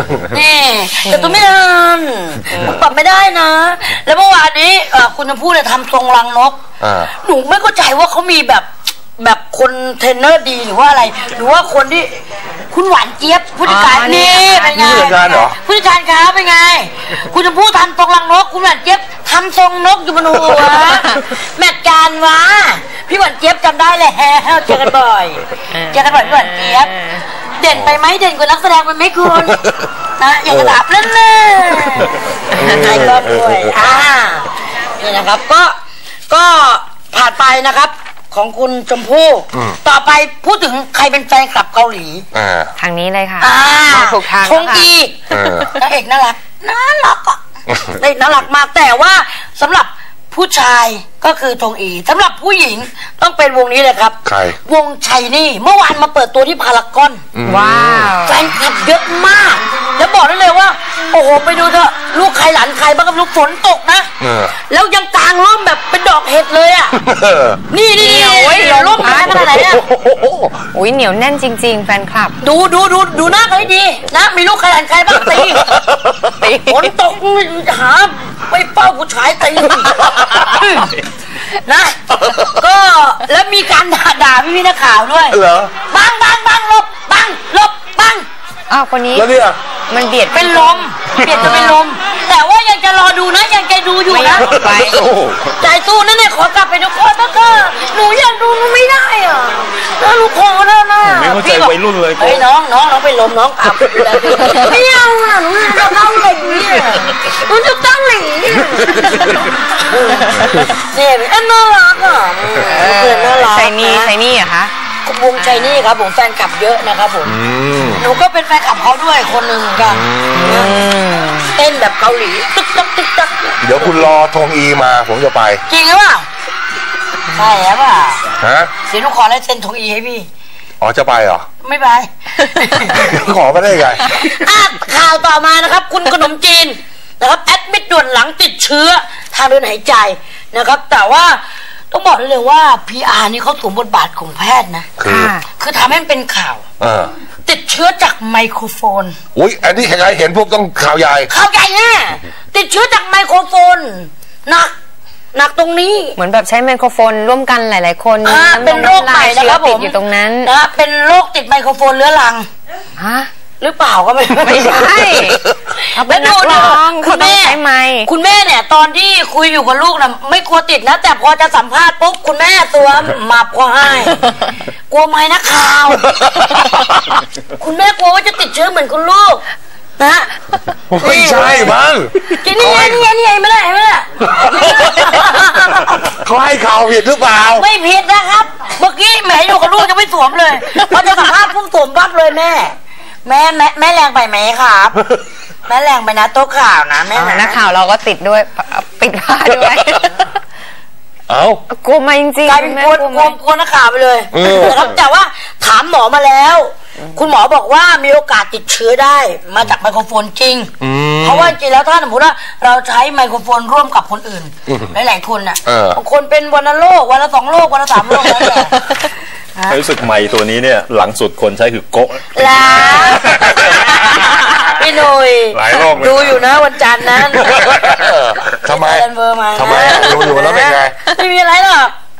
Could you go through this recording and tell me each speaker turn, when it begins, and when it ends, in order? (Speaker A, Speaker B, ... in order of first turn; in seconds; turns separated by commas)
Speaker A: 0.3-6.6, Speaker B: 1.1-1.4, Speaker C: 6.8-7.1, Speaker A: 7.1-26.9, Speaker B: 13.6-15.2, Speaker C: 14.7-15.6, Speaker B: 25.8-26.9, Speaker A: 27.6-29.6, Speaker A: 30.2-32.1, Speaker C: 30.5-30.8, Speaker C: 32.6-33.7, Speaker A: 32.7-34.5, Speaker A: 35.0-35.7, Speaker A: 36.3-42.2, Speaker C: 39.5-39.8, Speaker C: 42.3-42.7, Speaker B: 42.8-44.9, Speaker A: 43.4-47.4, Speaker C: 45.3-45.7, Speaker A: 47.9-57.2, Speaker C: 54.2-54.6, Speaker C: 57.3-58.1, Speaker B: 57.5-58.4, Speaker A: 58.2-67.0, Speaker C: 64.2-64.5, Speaker C: 67.0-67.6, Speaker A: 67.7-69.9, Speaker B: 68.0-69.8, Speaker C: 69.6-70.3, Speaker B: 70.3-72.3, Speaker A: 72.4-75.8, Speaker B: 76.4-76.9, Speaker A: 76.7-81.0, Speaker A: 81.6-85.4, Speaker C: 85.3-85.7, Speaker A: 85.9-88.2, Speaker B: 88.7-89.3, Speaker C: 89.1-89.6, Speaker B: 89.9-90.8, Speaker A: 90.3-94.5, Speaker B: 91.3-91.7, Speaker B: 94.1-95.0, Speaker D: 94.6-95.5, Speaker A: 95.6-109.2, Speaker D: 101.0-102.4, Speaker D: 103.8-104.5, Speaker A: 110.7-114.1, Speaker B: 112.6-114.7, Speaker A: 115.0-117.4, Speaker C: 117.2-118.0, Speaker A: 118.0-120.7, Speaker C: 119.8-120.7, Speaker B: 120.3-121.5, Speaker A: 121.5-123.9, Speaker C: 123.6-125.6, Speaker A: 125.7-126.3, Speaker A: 127.3-128.2, Speaker C: 128.4-128.7, Speaker A: 128.9-130.3, Speaker C: 130.8-131.5, Speaker A: 131.6-133.1, Speaker C: 132.9-134.0, Speaker A: 134.1-144.9, Speaker C: 145.0-145.3, Speaker B: 145.0-145.4, Speaker A: 145.5-146.6, Speaker C: 146.8-147.1, Speaker A: 147.4-149.2, Speaker C: 149.3-151.3, Speaker A: 151.3-154.7, Speaker A: 155.3-156.2, Speaker B: 156.2-160.5, Speaker A: 158.2-162.5, Speaker B: 163.0-163.3, Speaker A: 163.6-165.3, Speaker B: 164.4-165.4, Speaker B: 165.9-168.1, Speaker A: 166.0-174.2, Speaker A: 174.9-176.1, Speaker A: 177.6-179.4, Speaker A: 180.0-180.3, Speaker C: 180.9-183.0, Speaker A: 181.0-181.8, Speaker A: 182.4-186.2, Speaker C: 184.3-185.4, Speaker C: 186.0-187.7, Speaker A: 187.5-195.0, Speaker A: 195.7-197.6, Speaker B: 197.1-200.3, Speaker C: 201.3-201.6, Speaker B: 201.7-203.3, Speaker A: 202.4-218.8, Speaker C: 204.3-204.9, Speaker C: 210.8-211.5, Speaker C: 215.7-216.0, Speaker A: 219.6-219.8, Speaker D: 219.7-223.3, Speaker A: 222.3-227.8, Speaker D: 225.5-226.6, Speaker C: 227.4-230.9, Speaker A: 228.7-231.9